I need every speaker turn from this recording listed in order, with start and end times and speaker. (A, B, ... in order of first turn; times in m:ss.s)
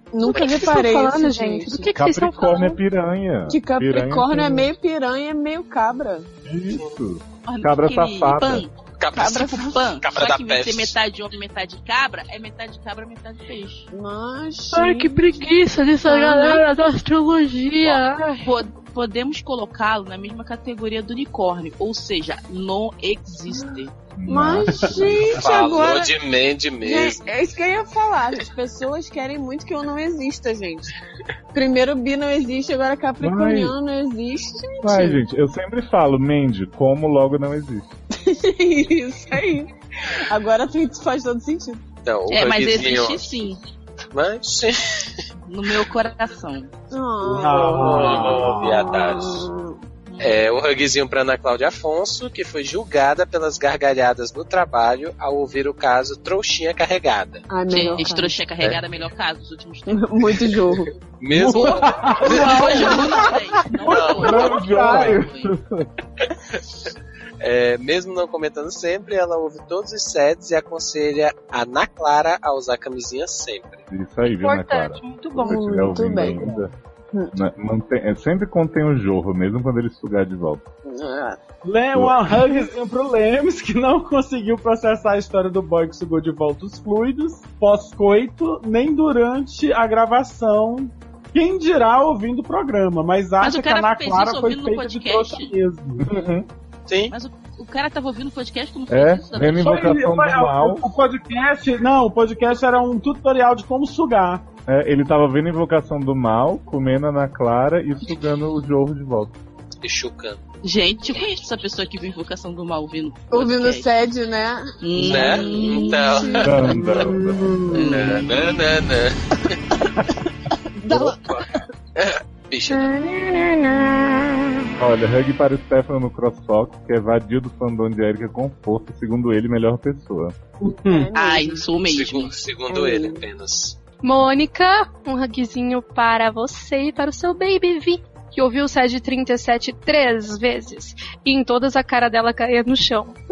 0:00.1-0:01.9 A
0:00.3-0:02.8 B
0:01.9-0:04.7 C
0:03.5-0:06.3 A
0:06.4-0:08.6 C
0:07.5-0:13.9 D
0:09.0-0:10.9 E
0:13.9-0:15.3 A
0:14.7-0:18.5 B
0:16.0-0:16.6 A
0:18.4-0:23.9 D
0:24.2-0:25.3 C
0:24.3-0:26.2 A
0:25.4-0:27.2 E
0:26.8-0:30.9 A
0:31.5-0:35.2 A
0:33.2-0:33.8 C
0:34.8-0:37.9 C
0:38.2-0:39.7 A
0:40.3-0:41.8 A
0:42.0-0:43.4 E
0:42.3-0:43.6 D
0:44.1-0:45.2 E
0:45.5-0:46.7 D
0:46.9-0:49.8 A
0:47.2-0:48.8 F
0:47.6-0:49.5 E
0:50.1-0:50.5 D
0:50.2-0:57.5 E
0:57.5-0:58.4 A
0:57.7-1:00.6 D
0:59.9-1:00.9 A
1:01.2-1:02.9 E
1:01.3-1:03.3 F
1:01.6-1:05.5 D
1:02.3-1:03.3 A
1:03.9-1:04.4 E
1:03.9-1:05.2 F
1:04.2-1:05.9 C
1:06.5-1:06.9 E
1:07.4-1:13.9 E
1:13.9-1:16.7 C
1:14.2-1:15.6 B
1:15.4-1:16.6 A
1:17.3-1:20.6 C
1:20.8-1:21.4 A
1:21.6-1:36.1 F
1:22.0-1:22.4 C
1:33.4-1:35.5 D
1:36.0-1:36.5 C
1:36.9-1:37.1 E
1:37.1-1:40.0 D
1:38.9-1:40.9 C
1:39.6-1:44.4 F
1:44.7-1:49.4 C
1:49.8-1:50.4 E
1:50.6-1:53.9 D
1:53.3-1:57.0 A
1:54.8-1:56.4 D
1:55.0-1:56.5 E
1:56.4-1:57.7 C
1:56.6-1:57.9 F
1:57.7-1:58.4 D
1:57.9-1:59.6 E
2:00.5-2:01.6 A
2:02.0-2:02.9 E
2:02.7-2:04.7 A
2:04.8-2:10.4 C
2:10.6-2:11.1 F
2:10.9-2:11.7 A
2:11.2-2:12.4 D
2:11.9-2:13.8 E
2:12.7-2:13.2 A
2:14.0-2:23.2 B